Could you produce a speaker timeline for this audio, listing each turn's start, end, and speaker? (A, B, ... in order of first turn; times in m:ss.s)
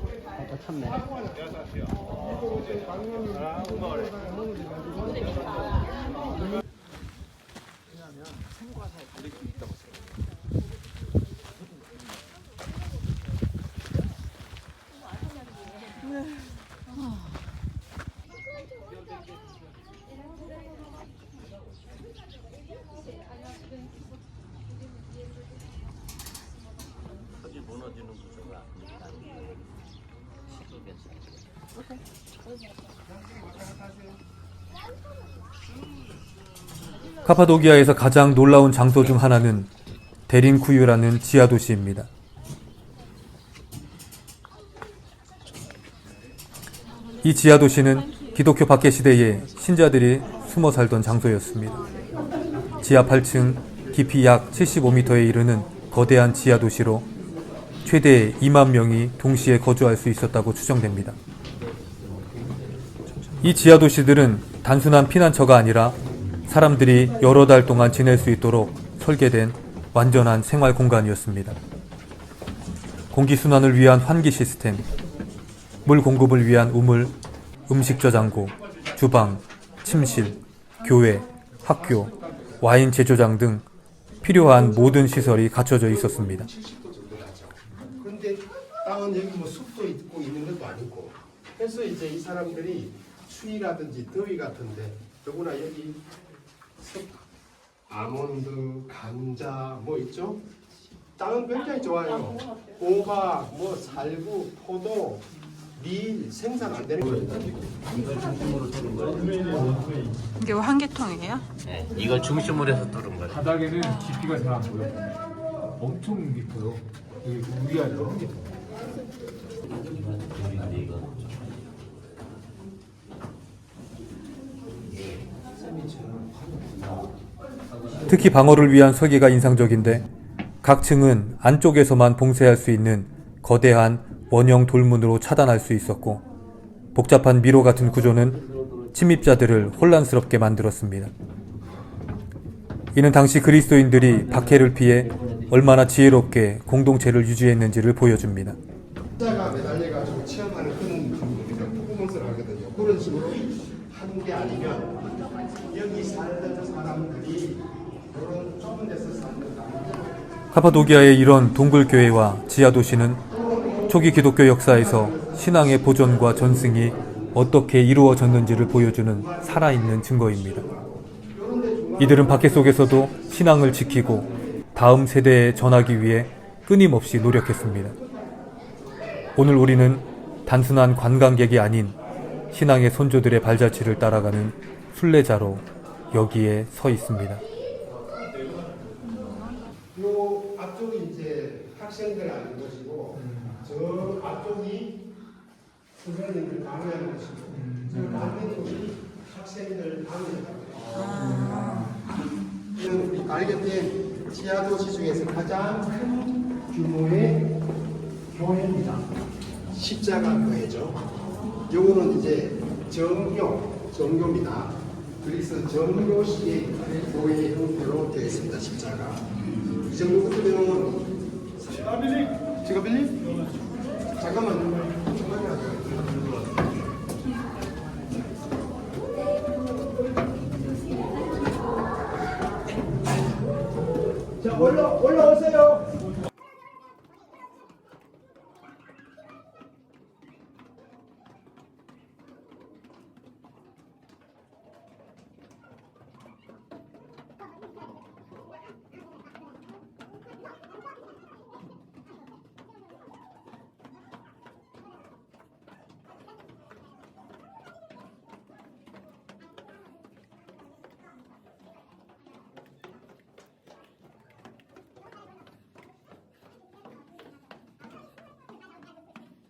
0:00.4-0:01.0 A
0:00.8-0:06.1 B
0:27.4-0:31.5 A
0:33.0-0:34.2 B
0:37.2-0:39.7 C
0:40.3-0:42.1 C
0:47.2-0:51.9 C
0:52.8-0:57.1 C
0:57.8-1:01.2 C
1:02.1-1:02.5 A
1:03.4-1:11.6 C
1:13.1-1:14.8 C
1:15.8-1:17.1 C
1:17.7-1:23.7 C
1:24.2-1:26.5 C
1:26.5-1:36.1 B
1:36.8-1:37.3 B
1:37.9-1:40.5 B
1:41.2-1:47.3 B
1:47.0-1:49.5 A
1:49.2-1:50.3 D
1:50.4-1:51.4 E
1:51.6-1:53.5 A
1:53.3-1:55.1 D
1:53.8-1:54.1 E
1:55.8-1:58.5 D
1:59.6-2:01.6 A
2:04.8-2:05.3 A
2:05.8-2:07.1 A
2:08.1-2:10.1 C
2:10.6-2:16.2 C
2:16.9-2:21.1 C
2:22.9-2:28.6 C
2:29.2-2:40.4 B
2:40.5-2:43.2 C
2:43.3-2:44.0 B
2:43.9-2:50.7 C
2:51.3-2:52.7 B
2:52.0-2:58.0 C
2:59.4-3:02.0 C
3:02.5-3:07.4 C
3:09.9-3:15.1 B
3:13.2-3:13.6 D
3:16.0-3:21.2 B
3:17.5-3:18.4 D
3:21.0-3:21.8 E
3:21.1-3:22.0 D
3:22.7-3:27.6 B
3:28.3-3:29.1 B
3:29.7-3:31.0 B
3:31.7-3:41.1 B
3:41.7-3:43.5 B
3:44.1-3:46.4 B
3:54.4-3:55.9 B